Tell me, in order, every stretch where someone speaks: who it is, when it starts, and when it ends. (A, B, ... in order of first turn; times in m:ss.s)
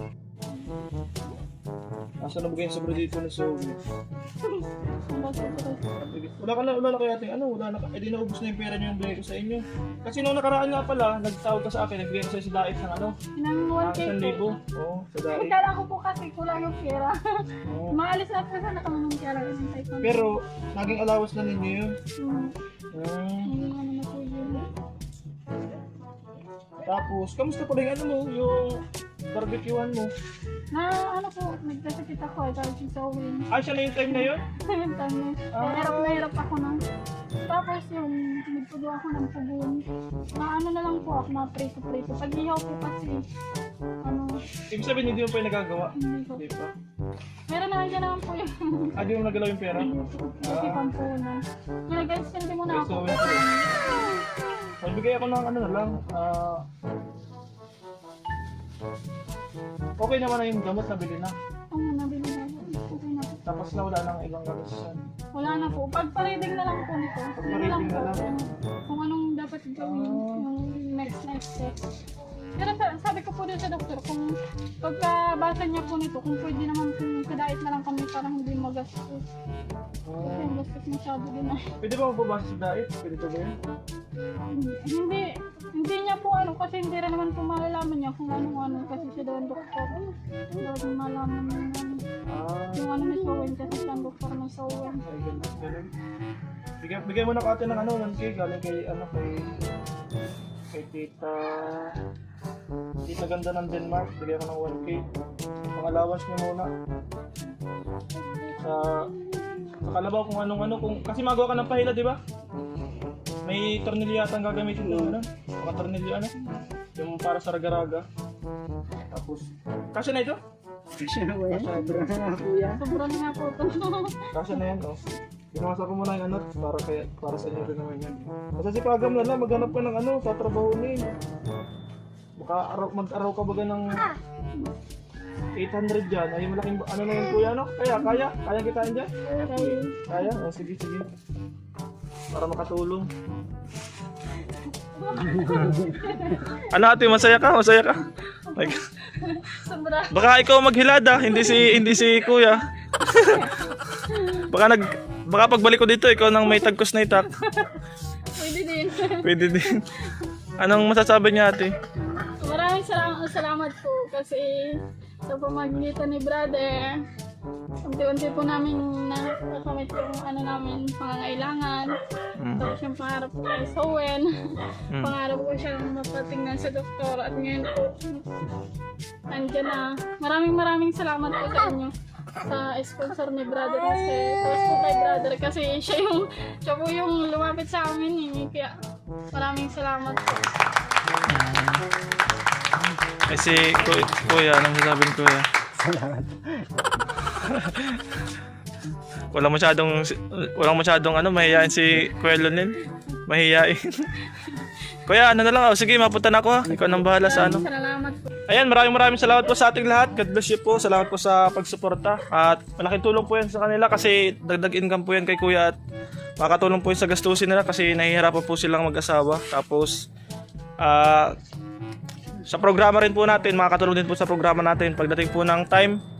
0:02.2-0:03.8 A
0:04.4-0:05.9 B
0:06.0-0:13.1 A
0:13.3-0:14.4 B
0:13.8-0:15.6 A
0:15.3-0:20.3 B
0:17.7-0:18.0 A
0:20.0-0:21.9 A
0:22.2-0:22.5 B
0:22.9-0:23.5 A
0:23.4-0:24.6 B
0:26.8-0:30.1 A
0:30.7-0:33.5 B
0:33.5-0:34.4 A
0:34.1-0:36.8 B
0:35.5-0:36.2 A
0:37.4-0:43.2 B
0:44.0-0:44.4 B
0:44.7-0:46.7 A
0:45.9-0:46.4 B
0:47.5-0:48.9 B
0:49.0-0:49.9 A
0:49.7-0:54.1 B
0:50.4-0:50.8 A
0:52.7-0:53.4 A
0:54.8-0:56.6 A
1:00.0-1:01.3 A
1:01.7-1:03.4 B
1:03.4-1:05.0 A
1:05.3-1:11.8 B
1:07.4-1:08.3 A
1:09.8-1:10.4 A
1:12.6-1:19.2 B
1:20.0-1:20.5 A
1:20.2-1:21.7 B
1:21.8-1:23.5 A
1:24.5-1:30.0 B
1:30.6-1:32.0 B
1:32.3-1:32.8 A
1:32.7-1:35.0 B
1:35.0-1:35.9 A
1:36.8-1:39.5 A
1:40.7-1:42.0 A
1:43.0-1:45.0 A
1:45.7-1:46.7 A
1:48.6-1:49.1 A
1:49.8-1:52.2 A
1:53.4-1:56.3 A
1:54.8-1:55.2 C
1:57.0-1:58.0 A
1:59.1-2:00.4 A
2:01.0-2:02.8 C
2:01.5-2:02.0 A
2:02.6-2:04.3 B
2:04.3-2:05.0 A
2:05.5-2:11.0 A
2:12.4-2:14.0 A
2:15.6-2:21.1 A
2:19.2-2:20.0 B
2:22.3-2:23.1 A
2:25.0-2:26.6 B
2:25.4-2:25.7 A
2:25.4-2:26.0 C
2:26.6-2:28.0 A
2:28.5-2:30.3 B
2:30.1-2:33.5 A
2:31.3-2:32.2 B
2:34.1-2:34.4 B
2:34.4-2:37.3 A
2:37.4-2:37.7 B
2:38.3-2:39.5 B
2:39.2-2:39.8 A
2:40.6-2:41.7 A
2:42.2-2:47.0 B
2:47.8-2:52.0 B
2:52.4-2:52.7 A
2:52.6-2:58.3 B
2:59.3-3:08.8 B
3:09.3-3:10.5 B
3:11.3-3:11.8 A
3:13.3-3:15.5 A
3:15.8-3:17.2 C
3:17.4-3:18.2 A
3:19.3-3:24.1 A
3:25.1-3:27.6 A
3:26.7-3:27.6 C
3:27.2-3:28.3 B
3:28.5-3:35.8 A
3:36.4-3:40.0 A
3:40.8-3:41.4 A
3:42.5-3:46.0 A